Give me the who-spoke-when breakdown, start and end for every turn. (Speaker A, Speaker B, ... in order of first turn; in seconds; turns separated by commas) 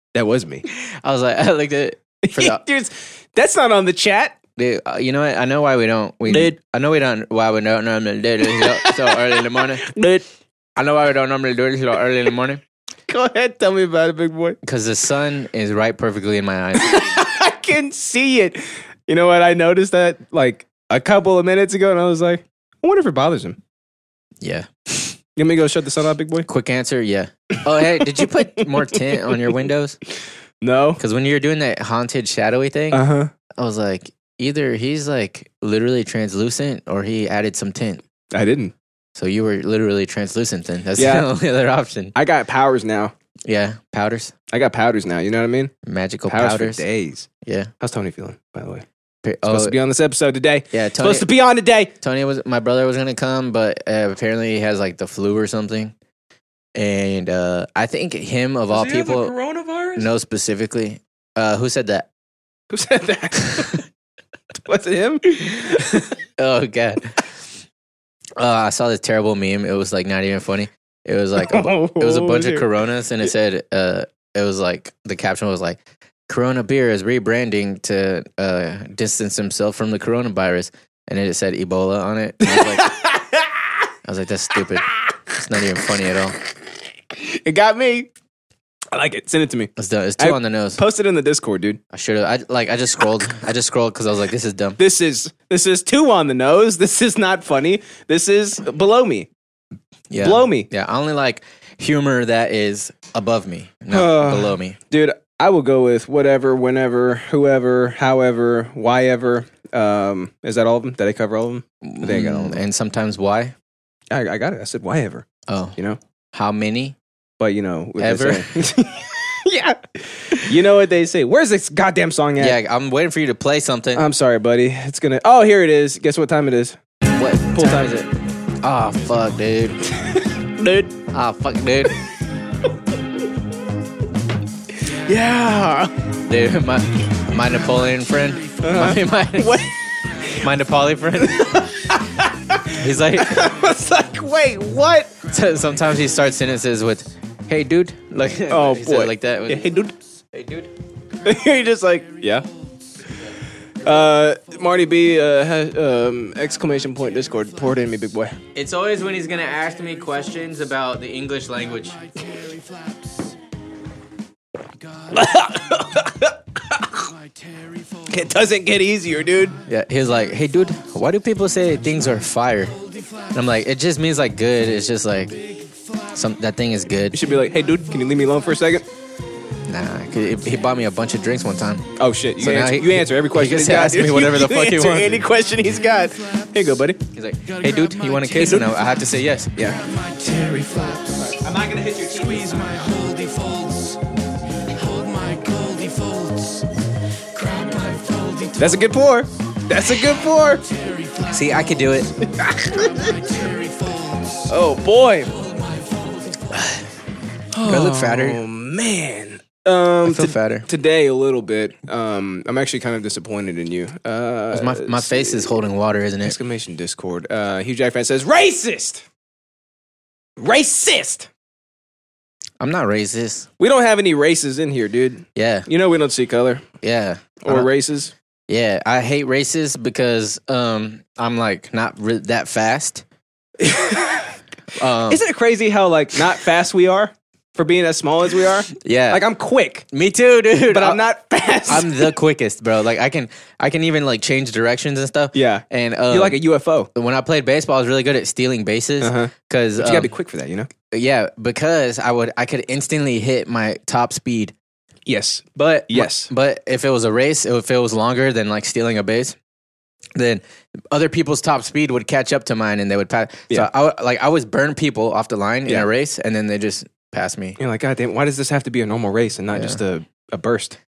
Speaker A: 0.1-0.7, Speaker B: 0.9-2.6, Speaker A: 2.2-4.4, Speaker B: 4.6-9.9, Speaker A: 6.3-6.6, Speaker A: 8.4-10.2, Speaker B: 10.8-12.6, Speaker A: 13.1-14.6, Speaker B: 14.6-17.2, Speaker A: 16.8-23.6, Speaker B: 24.4-25.2, Speaker A: 25.4-26.5, Speaker B: 26.5-30.0, Speaker A: 28.0-28.6, Speaker A: 30.6-31.0, Speaker B: 31.0-33.0, Speaker A: 32.9-33.3, Speaker B: 33.6-38.0, Speaker A: 38.3-38.7, Speaker B: 39.2-42.1, Speaker A: 41.0-41.3, Speaker A: 42.1-43.1, Speaker B: 43.5-44.3, Speaker A: 44.5-45.7, Speaker B: 45.8-46.8, Speaker A: 46.3-47.3, Speaker B: 47.4-47.7, Speaker A: 47.8-48.9, Speaker B: 49.2-49.8, Speaker A: 49.5-51.9, Speaker B: 50.7-51.3, Speaker B: 52.0-55.9, Speaker B: 56.8-59.4, Speaker A: 58.7-60.1, Speaker B: 60.0-62.1, Speaker A: 62.7-63.8, Speaker A: 64.7-66.0, Speaker B: 66.4-67.2, Speaker B: 68.4-82.9, Speaker A: 71.4-72.7, Speaker A: 82.4-83.6, Speaker B: 84.0-86.4, Speaker A: 87.1-88.1, Speaker A: 88.9-91.8, Speaker B: 89.8-90.8, Speaker B: 91.9-94.8, Speaker A: 94.8-99.3, Speaker B: 100.1-104.8, Speaker A: 100.2-100.7, Speaker A: 103.9-112.6, Speaker B: 111.8-113.5, Speaker A: 114.1-115.3, Speaker B: 115.5-115.8, Speaker B: 116.3-117.0, Speaker A: 117.4-122.6, Speaker B: 118.0-118.5, Speaker B: 122.4-124.0, Speaker A: 124.0-126.8, Speaker B: 127.1-128.1, Speaker A: 127.5-128.0, Speaker B: 128.6-129.8, Speaker A: 130.1-130.9, Speaker B: 131.1-132.0, Speaker A: 135.0-135.9, Speaker B: 136.3-139.6, Speaker C: 138.0-138.6, Speaker A: 138.6-139.7, Speaker B: 140.4-141.6, Speaker A: 141.2-145.1, Speaker B: 142.7-143.5, Speaker B: 145.3-149.7, Speaker C: 145.4-146.2, Speaker A: 148.5-149.9, Speaker B: 150.3-150.7, Speaker A: 151.2-152.4, Speaker C: 152.1-152.4, Speaker A: 153.8-158.4, Speaker C: 157.0-157.8, Speaker B: 158.6-162.0, Speaker C: 161.9-163.2, Speaker C: 164.9-165.3, Speaker A: 165.1-166.9, Speaker C: 167.2-168.4, Speaker A: 168.1-169.6, Speaker B: 169.7-172.8, Speaker C: 172.7-173.6, Speaker B: 173.3-175.4, Speaker C: 175.4-176.0, Speaker B: 176.1-177.2, Speaker A: 177.1-178.9, Speaker B: 179.7-181.9, Speaker A: 182.0-187.0, Speaker B: 182.4-185.3, Speaker C: 185.4-186.8, Speaker B: 187.1-189.5, Speaker C: 187.4-194.0, Speaker A: 188.3-188.7, Speaker A: 191.3-192.7, Speaker C: 194.7-196.7, Speaker C: 197.3-198.9, Speaker A: 198.6-200.6, Speaker C: 200.1-202.0, Speaker B: 201.3-202.1, Speaker A: 202.2-203.1, Speaker C: 202.7-204.6, Speaker A: 204.5-205.3, Speaker C: 205.3-206.4, Speaker B: 206.5-206.8, Speaker A: 207.5-215.6, Speaker B: 207.6-208.4, Speaker B: 210.1-210.7, Speaker B: 214.5-216.4, Speaker A: 216.2-219.0, Speaker A: 220.4-221.3, Speaker B: 222.6-223.5, Speaker A: 223.6-226.7, Speaker B: 225.4-225.7, Speaker B: 226.8-227.7, Speaker A: 227.4-228.1, Speaker B: 228.5-233.0, Speaker A: 233.6-234.3, Speaker B: 234.8-235.2, Speaker A: 235.1-239.9, Speaker B: 238.8-239.2, Speaker B: 239.9-241.0, Speaker A: 240.7-242.1, Speaker B: 241.7-246.4, Speaker A: 245.3-246.9, Speaker B: 246.9-250.1, Speaker A: 249.0-250.7, Speaker B: 250.9-254.5, Speaker A: 255.1-256.3, Speaker B: 255.6-259.4, Speaker B: 260.2-267.6, Speaker A: 267.6-270.8, Speaker B: 269.5-269.8